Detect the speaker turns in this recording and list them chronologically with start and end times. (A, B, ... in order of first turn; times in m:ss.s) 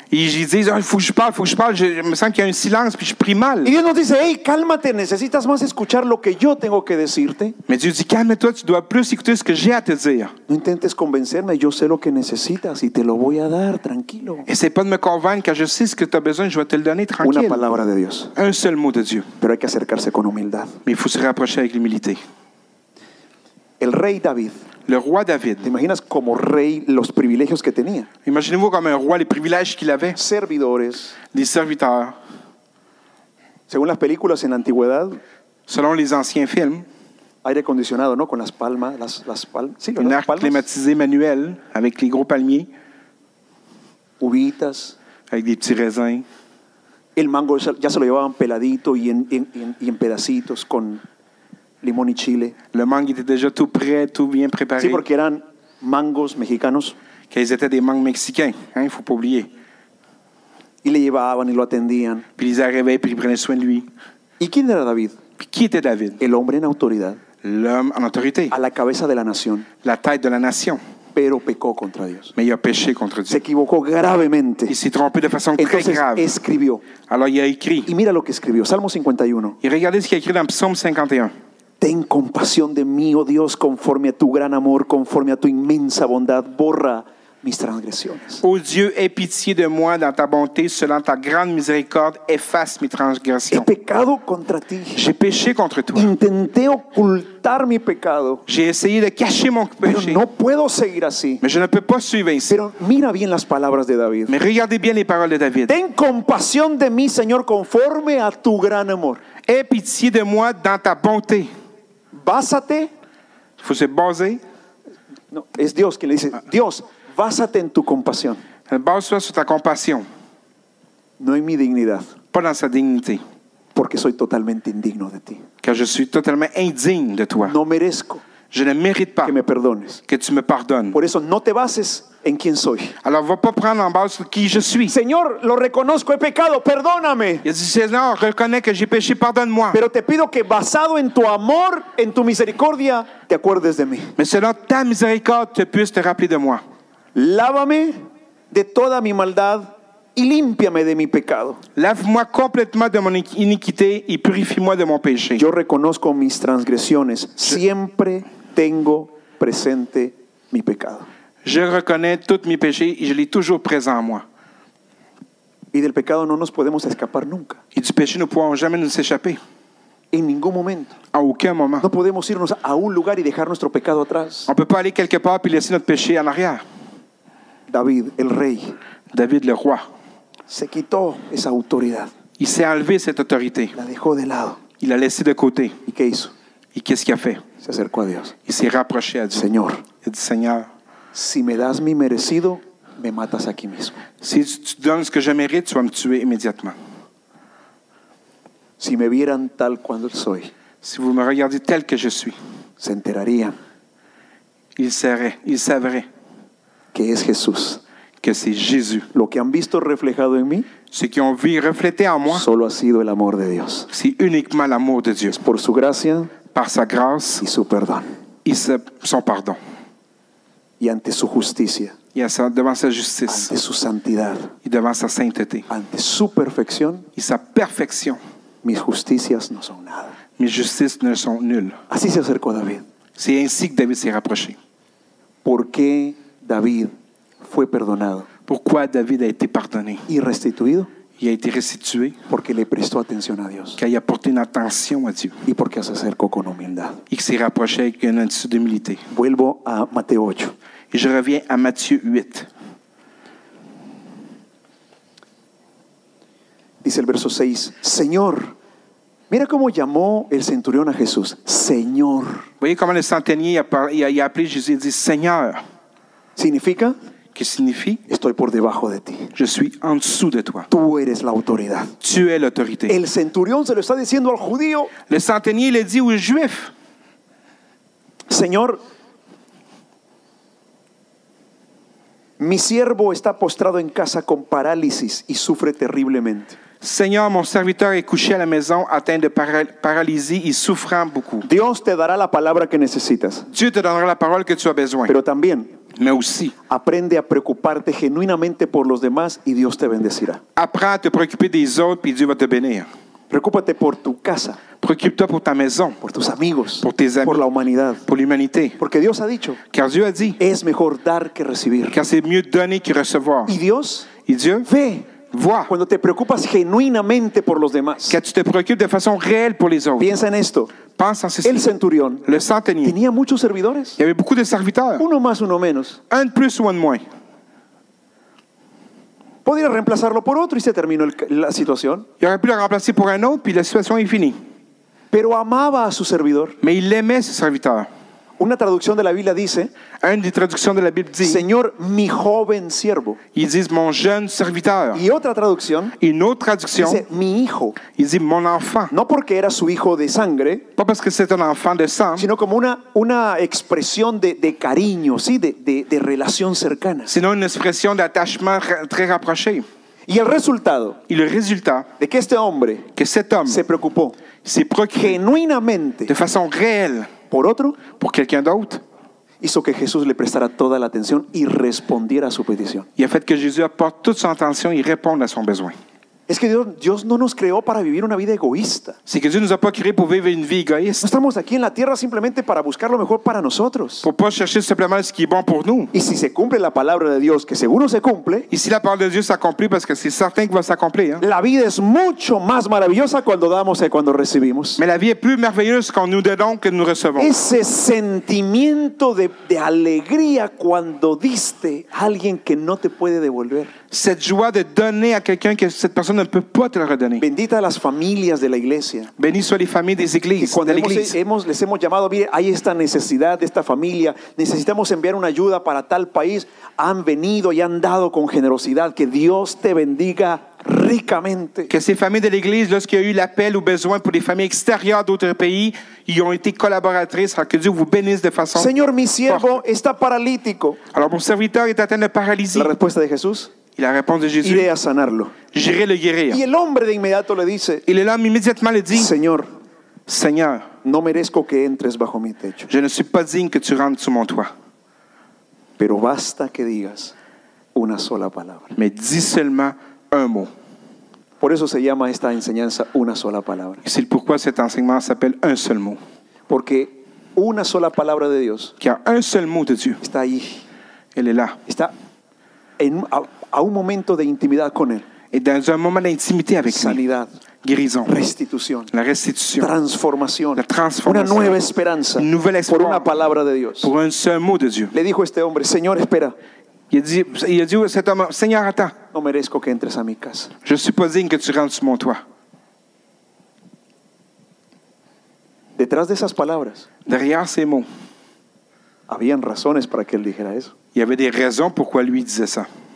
0:00.1-0:03.8 A
0:03.6-0:07.6 B
0:07.7-0:10.3 A
0:10.5-0:14.5 B
0:14.5-0:17.6 A
0:17.2-0:18.3 B
0:18.4-0:19.3 A
0:19.4-0:20.8 B
0:20.8-0:22.2 A
0:23.8-0:24.6 B
0:24.9-0:25.7 A
0:25.6-0:28.1 B
0:28.2-0:30.2 A
0:30.2-0:31.2 B
0:31.3-0:32.2 A
0:33.7-0:35.2 B
0:35.7-0:36.8 A
0:37.4-0:40.6 B
0:40.0-0:42.7 A
0:44.2-0:45.0 B
0:45.3-0:46.2 A
0:47.2-0:51.0 B
0:51.8-0:52.6 B
0:52.7-0:55.0 A
0:54.8-0:57.0 B
0:57.3-0:59.5 A
1:00.8-1:02.2 B
1:02.4-1:03.9 A
1:04.4-1:05.2 B
1:05.4-1:06.2 A
1:06.2-1:07.2 B
1:07.4-1:08.6 A
1:08.5-1:09.7 B
1:09.8-1:10.8 A
1:11.2-1:12.3 B
1:12.4-1:13.4 A
1:13.3-1:14.7 B
1:14.7-1:16.4 A
1:15.6-1:16.8 B
1:17.1-1:17.9 A
1:17.9-1:19.6 B
1:19.6-1:21.3 A
1:21.8-1:28.4 B
1:28.4-1:33.7 A
1:33.5-1:35.1 B
1:35.0-1:36.1 A
1:36.0-1:38.4 B
1:38.5-1:40.2 A
1:39.8-1:41.4 B
1:41.4-1:42.6 A
1:42.5-1:44.3 B
1:44.3-1:45.8 A
1:45.7-1:49.2 B
1:49.5-1:51.5 A
1:52.1-1:52.9 B
1:53.6-1:54.4 A
1:55.3-1:58.4 B
1:58.7-2:00.0 A
2:01.2-2:02.1 B
2:02.3-2:03.2 A
2:03.8-2:05.4 B
2:05.6-2:07.6 A
2:07.4-2:08.2 B
2:08.5-2:09.3 A
2:09.2-2:10.0 B
2:10.1-2:11.0 A
2:10.9-2:13.0 B
2:13.0-2:15.0 A
2:14.9-2:17.5 B
2:17.4-2:19.8 A
2:19.7-2:24.1 B
2:24.2-2:26.6 A
2:27.2-2:28.0 B
2:28.5-2:31.6 B
2:31.8-2:35.4 A
2:35.4-2:41.1 B
2:41.4-2:44.2 A
2:45.7-2:47.6 B
2:47.7-2:49.4 A
2:50.1-2:51.0 B
2:51.1-2:51.9 A
2:51.8-2:54.5 B
2:54.5-2:56.6 A
2:57.7-2:58.8 B
2:59.1-2:59.9 A
3:00.5-3:02.1 B
3:02.4-3:03.8 A
3:03.8-3:04.6 B
3:04.8-3:05.8 A
3:05.9-3:06.3 B
3:06.7-3:07.4 A
3:07.6-3:08.4 B
3:08.5-3:09.5 A
3:09.3-3:09.8 B
3:10.0-3:10.7 A
3:11.1-3:14.0 B
3:14.2-3:16.8 A
3:18.8-3:20.5 B
3:20.8-3:22.4 A
3:22.8-3:23.6 B
3:24.8-3:26.1 A
3:26.9-3:27.8 B
3:28.2-3:29.1 A
3:29.1-3:30.7 B
3:30.9-3:32.5 A
3:32.3-3:33.9 B
3:33.9-3:35.4 A
3:35.3-3:36.3 B
3:36.5-3:37.4 A
3:37.4-3:38.1 B
3:38.4-3:39.6 A
3:40.8-3:42.0 B
3:42.2-3:43.5 A
3:43.3-3:44.6 B
3:44.6-3:45.7 A
3:45.7-3:47.1 B
3:47.2-3:48.2 A
3:48.6-3:50.2 B
3:50.4-3:51.8 A
3:51.9-3:52.8 B
3:53.2-3:54.6 A
3:55.4-3:58.3 B
3:58.5-4:00.1 A
4:00.1-4:00.9 B
4:01.2-4:02.2 A
4:02.3-4:03.8 B
4:03.8-4:05.4 A
4:05.5-4:07.0 B
4:07.1-4:09.0 A
4:09.1-4:10.6 B
4:10.9-4:12.5 A
4:16.8-4:18.6 B
4:19.3-4:22.5 B
4:22.6-4:25.6 A
4:26.4-4:27.0 B
4:27.4-4:28.0 A
4:28.1-4:29.3 B
4:29.4-4:30.7 A
4:30.7-4:31.9 B
4:32.0-4:33.0 A
4:32.9-4:34.9 B
4:35.1-4:36.7 A
4:38.3-4:38.8 B
4:42.4-4:46.6 B
4:46.8-4:51.5 A
4:51.4-4:53.5 B
4:53.5-4:55.2 A
4:55.1-4:55.8 B
4:55.9-4:56.6 A
4:56.7-5:00.4 B
5:00.6-5:02.9 A
5:03.3-5:04.6 B
5:04.8-5:06.0 A
5:06.0-5:08.0 B
5:06.8-5:07.5 A
5:08.1-5:08.8 A
5:08.8-5:09.6 B
5:09.7-5:10.4 A
5:10.4-5:12.0 B
5:11.9-5:13.6 A
5:13.5-5:14.1 B
5:14.3-5:14.7 A
5:14.6-5:15.1 B
5:15.2-5:15.7 A
5:15.7-5:18.2 B
5:18.1-5:20.1 A
5:20.0-5:20.7 B
5:21.0-5:21.7 A
5:21.4-5:22.3 B
5:22.2-5:23.0 A
5:22.8-5:24.0 B
5:24.0-5:25.0 A
5:25.0-5:26.0 B
5:26.1-5:27.0 A
5:29.4-5:32.1 B
5:32.2-5:34.4 A
5:35.1-5:36.6 B
5:36.6-5:37.9 A
5:38.4-5:39.7 B
5:40.0-5:41.4 A
5:41.2-5:43.2 B
5:43.3-5:45.0 A
5:44.9-5:46.0 B
5:46.0-5:47.0 A
5:46.8-5:47.8 B
5:47.9-5:48.9 A
5:48.9-5:50.7 B
5:50.8-5:52.3 A
5:52.2-5:57.1 B
5:57.1-5:59.6 A
6:00.1-6:01.0 B
6:01.1-6:01.9 A
6:02.0-6:02.9 B
6:03.0-6:03.6 A
6:03.5-6:04.2 B
6:04.4-6:05.2 A
6:05.0-6:06.1 B
6:06.1-6:07.1 A
6:07.3-6:07.8 B
6:08.0-6:08.8 A
6:09.4-6:12.9 B
6:13.0-6:15.7 A
6:16.3-6:19.0 B
6:19.1-6:21.1 A
6:21.0-6:24.1 B
6:24.0-6:25.9 A
6:25.9-6:28.5 B
6:28.5-6:31.2 A
6:31.2-6:34.8 B
6:34.8-6:37.4 A
6:37.2-6:43.7 B
6:43.9-6:47.3 A
6:47.2-6:49.1 B
6:49.2-6:51.2 A
6:50.4-7:01.7 B
7:01.7-7:08.8 A
7:08.6-7:10.8 B
7:09.3-7:09.6 A
7:10.9-7:12.7 A
7:12.5-7:13.5 B
7:13.8-7:14.7 A
7:14.4-7:15.4 B
7:15.5-7:16.4 A
7:16.3-7:17.8 B
7:17.9-7:19.1 A
7:18.9-7:19.5 B
7:20.1-7:20.7 A
7:20.8-7:22.7 B
7:22.7-7:24.5 A
7:25.8-7:27.1 B
7:27.7-7:28.8 B
7:28.8-7:30.5 A
7:31.4-7:33.8 B
7:33.8-7:36.0 A
7:36.5-7:38.7 B
7:38.8-7:40.0 A
7:40.0-7:40.6 B
7:41.2-7:41.6 A
7:41.7-7:41.9 B
7:42.8-7:45.1 B
7:45.3-7:47.0 A
7:46.7-7:47.3 B
7:47.6-7:48.2 A
7:48.1-7:48.9 B
7:48.9-7:49.7 A
7:49.6-7:53.9 B
7:50.6-7:51.6 A
7:52.2-7:53.1 A
7:53.8-7:54.9 A
7:54.9-7:56.4 B
7:56.9-7:59.0 A
7:59.1-8:00.5 B
8:00.6-8:02.2 A
8:05.8-8:06.9 B
8:07.1-8:07.9 A
8:09.1-8:10.7 B
8:11.0-8:12.7 A